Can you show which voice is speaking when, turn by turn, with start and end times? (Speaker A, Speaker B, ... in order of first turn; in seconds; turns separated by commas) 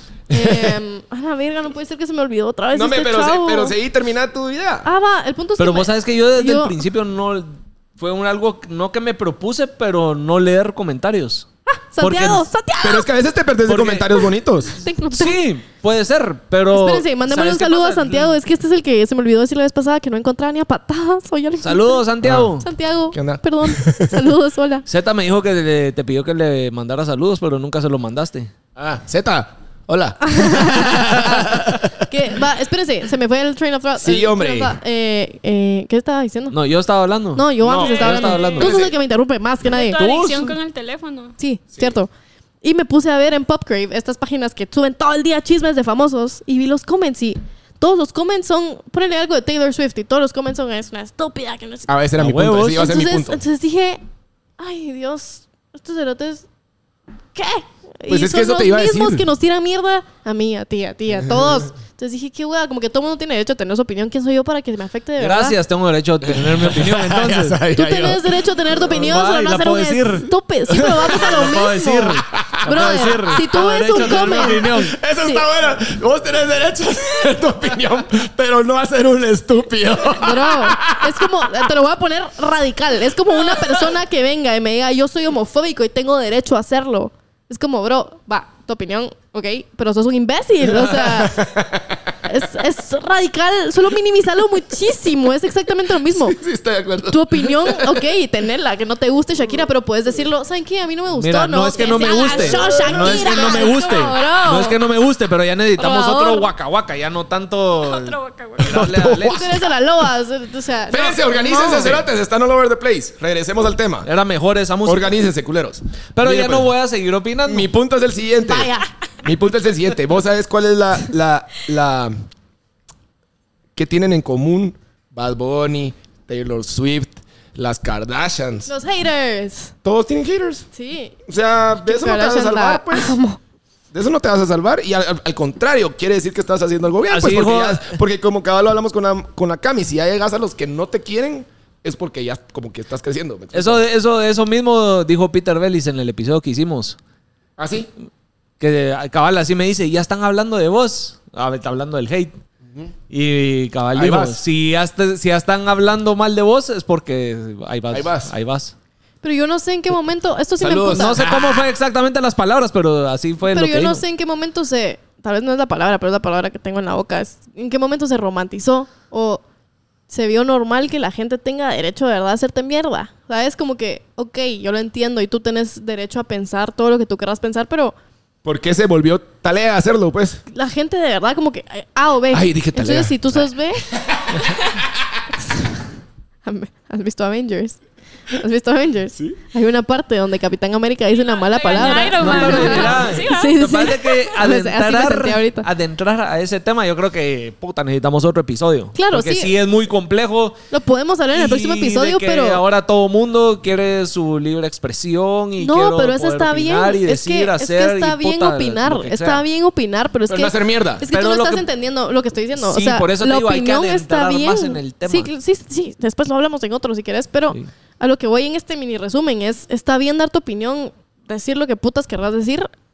Speaker A: 0.3-0.8, Speaker B: 0.3-3.8, Speaker A: 2.7-4.9, Speaker B: 4.8-6.8, Speaker C: 5.6-11.5, Speaker B: 11.7-13.1, Speaker C: 12.0-12.5, Speaker A: 12.8-14.8, Speaker C: 13.7-14.3, Speaker B: 14.8-15.4, Speaker C: 15.1-18.4, Speaker B: 16.7-22.0, Speaker C: 21.6-22.6, Speaker A: 22.2-22.5, Speaker B: 22.6-24.9, Speaker A: 23.1-24.2, Speaker C: 24.9-28.5, Speaker A: 28.8-32.1, Speaker B: 30.2-36.6, Speaker A: 34.0-34.8, Speaker C: 36.5-38.7, Speaker B: 37.3-40.4, Speaker A: 37.6-39.0, Speaker D: 37.8-38.7, Speaker D: 39.7-41.4, Speaker C: 40.0-40.4, Speaker B: 41.4-42.1, Speaker B: 42.6-51.9, Speaker A: 51.9-53.4, Speaker C: 52.2-52.9, Speaker B: 52.8-54.0, Speaker B: 54.6-56.5, Speaker B: 57.4-65.6, Speaker A: 58.1-59.3, Speaker C: 65.2-67.6, Speaker A: 66.2-68.4, Speaker B: 67.7-74.7, Speaker C: 68.9-70.3, Speaker C: 71.1-75.0, Speaker A: 73.9-81.6, Speaker B: 80.2-91.4, Speaker A: 83.3-83.7, Speaker A: 90.7-92.0, Speaker B: 92.3-96.4, Speaker A: 96.1-98.0, Speaker B: 97.1-104.8, Speaker C: 101.2-109.5, Speaker A: 102.2-103.7, Speaker B: 105.8-106.5, Speaker D: 107.8-108.7, Speaker A: 108.6-109.5, Speaker B: 109.2-112.0, Speaker A: 110.9-114.1, Speaker C: 114.1-115.2, Speaker A: 114.8-116.7, Speaker C: 116.2-117.7, Speaker A: 117.5-118.7, Speaker B: 118.4-118.9, Speaker A: 119.2-122.2, Speaker A: 123.8-128.7, Speaker B: 128.7-129.7, Speaker A: 129.8-130.7, Speaker B: 130.7-131.2, Speaker A: 131.3-133.2, Speaker B: 131.8-133.4, Speaker A: 133.9-143.8, Speaker C: 137.1-138.0, Speaker C: 143.5-147.0, Speaker A: 147.6-147.9, Speaker C: 148.6-152.3, Speaker C: 153.1-158.7, Speaker A: 153.9-154.4, Speaker A: 157.9-158.3, Speaker B: 159.2-161.2, Speaker A: 160.6-161.6, Speaker C: 160.9-164.0, Speaker B: 163.5-169.4, Speaker B: 170.1-178.0, Speaker A: 178.4-180.4, Speaker B: 180.5-183.8, Speaker A: 182.3-184.4, Speaker B: 186.4-187.8, Speaker B: 188.3-195.7, Speaker D: 191.1-193.6, Speaker C: 192.2-200.6, Speaker B: 198.9-199.6, Speaker B: 200.7-202.6, Speaker C: 201.3-209.4, Speaker B: 205.6-222.7, Speaker A: 210.3-211.0, Speaker C: 211.1-211.7, Speaker C: 212.6-215.3